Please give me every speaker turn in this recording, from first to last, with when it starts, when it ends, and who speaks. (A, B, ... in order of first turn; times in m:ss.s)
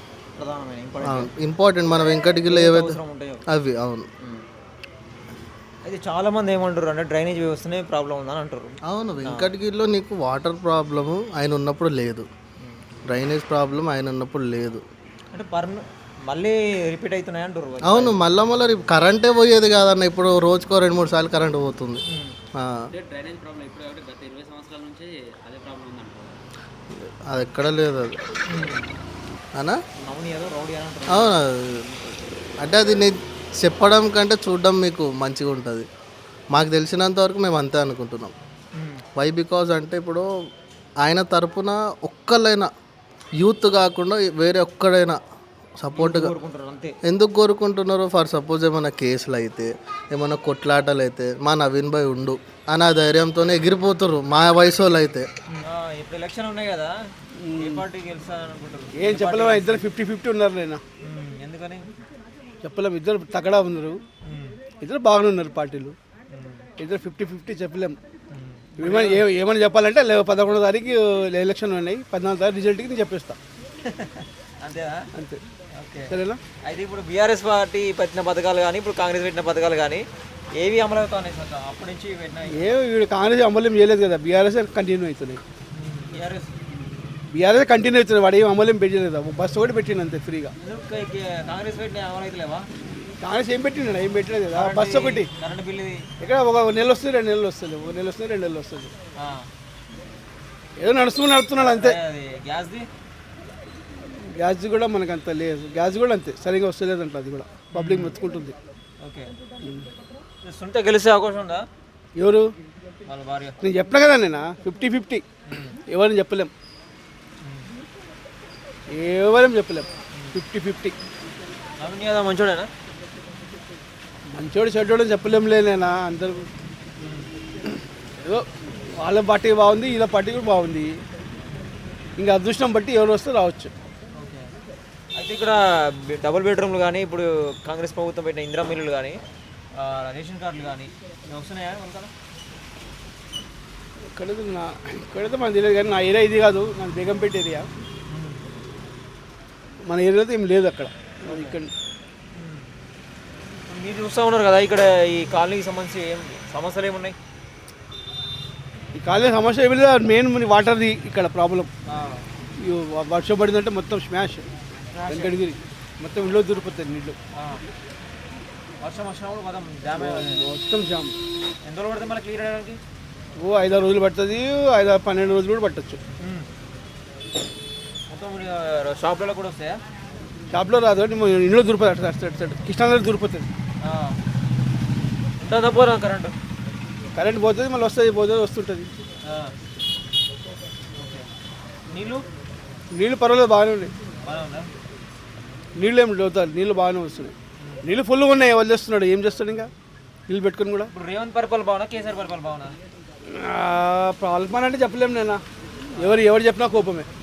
0:00.4-0:01.3 A
0:01.0-0:03.0 B
0:02.5-0:03.4 A
0:03.5-0:04.1 B
0:05.8-0:09.5 A
0:08.8-0:12.3 B
0:13.1-0:14.8 B
0:15.3-0:18.2 A
0:17.8-0:22.0 B
0:22.1-0:22.4 A
0:22.6-0:22.8 B
0:22.9-0:26.4 C
0:26.9-0:28.2 B
0:28.5-0:28.9 A
0:30.0-0:31.4 A
0:31.1-0:31.8 B
0:32.6-0:35.8 B
0:36.5-0:38.3 B
0:38.7-0:39.0 A
0:39.2-0:40.3 B
0:41.0-0:42.7 B
0:43.4-0:45.2 B
0:45.8-0:46.3 B
0:46.0-0:47.0 A
0:47.0-0:55.3 B
0:55.5-0:59.8 A
0:57.4-0:57.8 D
0:58.9-1:00.8 D
1:01.0-1:01.9 A
1:02.6-1:04.0 D
1:04.2-1:04.6 A
1:04.8-1:06.0 D
1:06.3-1:06.7 A
1:06.8-1:08.0 D
1:08.3-1:09.2 A
1:08.8-1:13.4 D
1:13.8-1:15.1 A
1:15.1-1:15.4 D
1:15.7-1:22.6 A
1:16.1-1:16.4 D
1:22.5-1:25.4 D
1:25.7-1:26.6 A
1:27.3-1:30.5 D
1:30.6-1:32.7 A
1:33.2-1:35.3 D
1:34.5-1:36.1 A
1:36.2-1:38.9 D
1:39.2-1:39.5 A
1:40.8-1:42.0 D
1:41.6-1:42.9 A
1:44.1-1:48.5 D
1:47.7-1:48.2 A
1:49.0-1:49.3 A
1:49.6-1:49.9 D
1:50.4-1:51.6 A
1:52.2-1:52.5 D
1:53.0-1:53.6 A
1:53.6-1:55.2 D
1:55.5-1:55.8 A
1:55.8-1:56.5 D
1:57.4-1:57.7 A
1:58.9-2:01.0 D
2:00.1-2:00.4 A
2:01.8-2:02.7 A
2:04.3-2:06.5 D
2:07.0-2:07.3 A
2:07.6-2:11.0 D
2:12.2-2:13.7 D
2:14.1-2:14.5 A
2:15.1-2:19.2 A
2:19.7-2:22.1 A
2:24.1-2:27.7 D
2:28.1-2:28.5 A
2:29.8-2:31.7 D
2:31.2-2:31.6 A
2:32.3-2:32.7 A
2:33.6-2:37.2 A
2:38.9-2:41.7 D
2:41.8-2:42.2 A
2:42.6-2:44.4 D
2:44.8-2:45.4 A
2:45.1-2:47.2 D
2:47.3-2:47.6 A
2:48.8-2:50.4 A
2:50.0-2:51.1 D
2:51.6-2:52.8 A
2:53.4-2:56.0 D
2:56.2-2:56.5 A
2:58.1-2:59.8 A
3:00.5-3:03.5 D
3:03.8-3:04.2 A
3:05.4-3:06.3 A
3:07.1-3:08.9 D
3:09.2-3:09.5 A
3:10.9-3:11.3 A
3:11.9-3:12.2 A
3:12.9-3:13.9 D
3:14.2-3:14.7 A
3:15.8-3:19.7 D
3:20.3-3:20.9 D
3:20.9-3:22.7 A
3:23.2-3:25.4 D
3:25.9-3:26.2 A
3:26.0-3:27.1 D